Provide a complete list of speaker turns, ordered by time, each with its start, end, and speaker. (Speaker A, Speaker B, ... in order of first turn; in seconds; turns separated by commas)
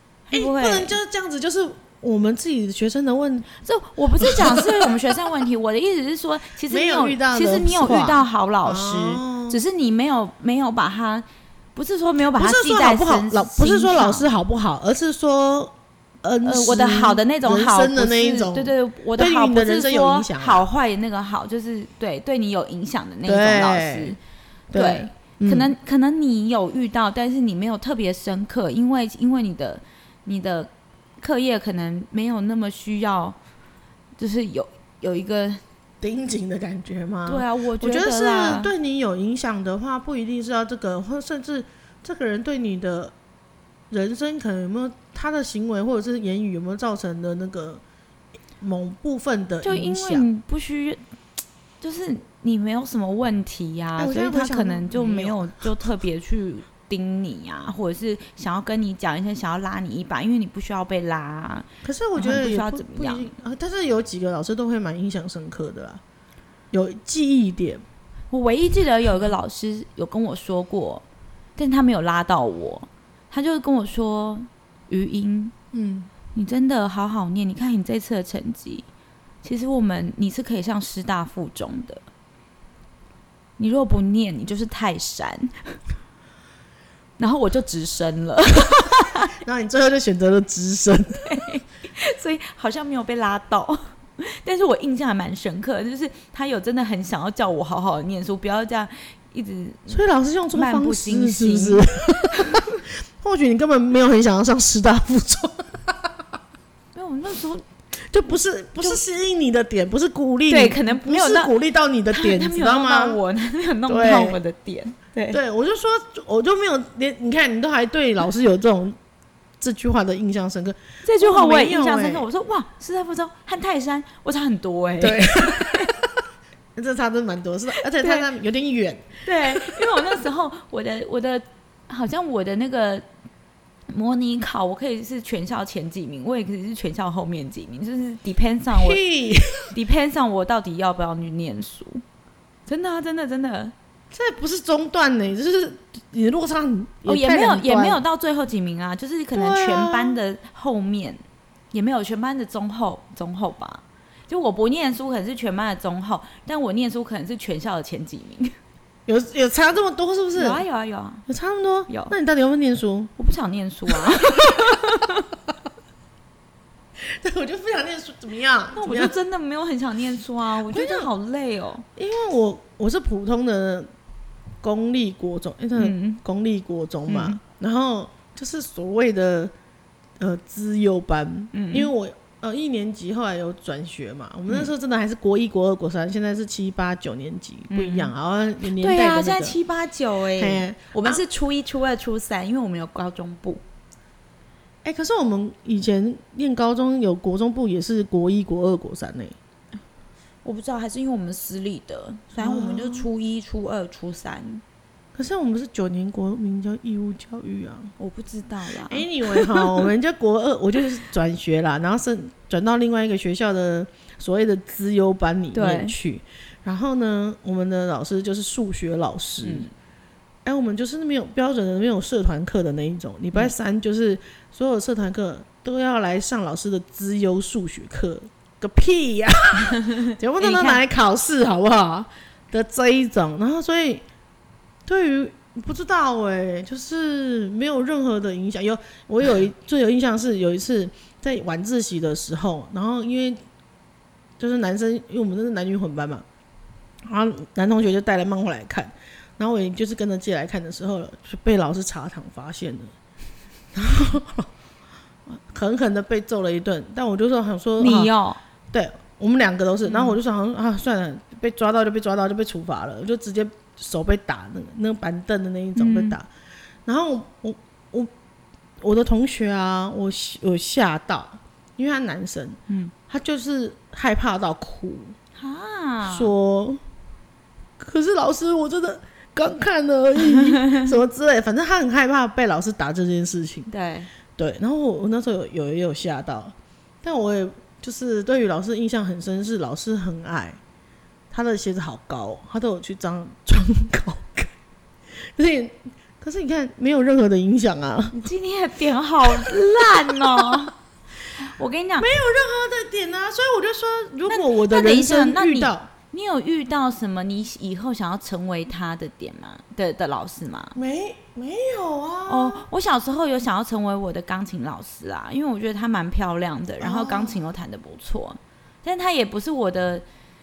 Speaker A: 0.3-1.0, Speaker B: 0.3-3.5, Speaker A: 3.6-14.3, Speaker B: 4.2-4.9, Speaker B: 6.7-9.6, Speaker B: 12.4-20.6, Speaker A: 16.4-24.2, Speaker B: 23.3-24.2, Speaker B: 24.7-25.7, Speaker A: 24.7-33.4, Speaker A: 34.2-35.6, Speaker B: 36.0-43.1, Speaker A: 37.3-38.7, Speaker B: 43.9-47.8, Speaker B: 48.6-50.3, Speaker A: 49.6-51.0, Speaker A: 51.8-63.3, Speaker B: 54.0-55.6, Speaker B: 61.8-66.0, Speaker B: 66.7-67.8, Speaker A: 68.3-71.0, Speaker A: 71.6-75.5, Speaker B: 75.7-76.1, Speaker A: 76.3-78.9, Speaker A: 79.4-82.0, Speaker A: 83.6-85.8, Speaker A: 87.2-89.3, Speaker B: 89.4-91.4, Speaker A: 91.2-102.7, Speaker B: 99.9-106.1, Speaker A: 106.9-107.7, Speaker B: 108.1-113.2, Speaker A: 110.5-111.5, Speaker A: 112.1-115.4, Speaker B: 113.9-114.4, Speaker B: 115.3-119.0, Speaker B: 119.6-122.2, Speaker A: 121.0-125.9, Speaker B: 125.0-125.9, Speaker B: 126.8-129.8, Speaker A: 128.0-128.3, Speaker A: 129.2-133.0, Speaker A: 133.9-139.0, Speaker B: 138.7-139.7, Speaker A: 139.7-142.0, Speaker A: 142.7-143.7, Speaker B: 144.1-148.0, Speaker A: 147.1-158.6, Speaker B: 149.3-150.2, Speaker B: 159.1-160.6, Speaker A: 160.3-161.2, Speaker B: 161.3-163.1, Speaker A: 161.9-162.1, Speaker A: 163.2-165.3, Speaker B: 163.9-164.6, Speaker B: 167.0-169.2, Speaker A: 168.7-171.9, Speaker B: 170.7-171.1, Speaker B: 172.0-173.9, Speaker B: 174.6-179.5, Speaker A: 175.8-176.2, Speaker A: 177.1-177.4, Speaker B: 180.2-189.6, Speaker A: 181.5-181.9, Speaker A: 187.7-188.1, Speaker A: 188.7-193.6, Speaker B: 190.4-191.2, Speaker B: 194.8-199.4, Speaker A: 200.4-204.6, Speaker B: 202.4-203.1, Speaker B: 205.2-207.9, Speaker A: 208.0-209.9, Speaker B: 208.9-219.7, Speaker A: 215.5-215.9, Speaker A: 219.4-219.7, Speaker B: 220.4-234.1, Speaker A: 229.8-230.8, Speaker B: 234.9-243.4, Speaker B: 244.4-246.2, Speaker B: 247.1-252.9, Speaker B: 253.7-254.5, Speaker B: 255.3-258.1, Speaker A: 257.8-258.4, Speaker B: 258.7-266.3, Speaker A: 259.9-260.2, Speaker A: 265.8-266.2, Speaker B: 266.9-268.1, Speaker B: 268.8-275.2, Speaker A: 272.7-272.9, Speaker A: 275.4-276.3, Speaker B: 276.1-276.8, Speaker B: 277.8-283.7, Speaker A: 280.4-280.9, Speaker A: 283.7-284.1, Speaker B: 284.4-290.6, Speaker B: 291.3-294.5, Speaker B: 295.2-298.3, Speaker A: 298.1-300.7, Speaker B: 300.1-300.5, Speaker A: 301.4-302.1, Speaker B: 302.0-305.9, Speaker A: 304.3-310.8, Speaker B: 310.8-312.7, Speaker A: 312.3-320.1, Speaker B: 316.8-317.4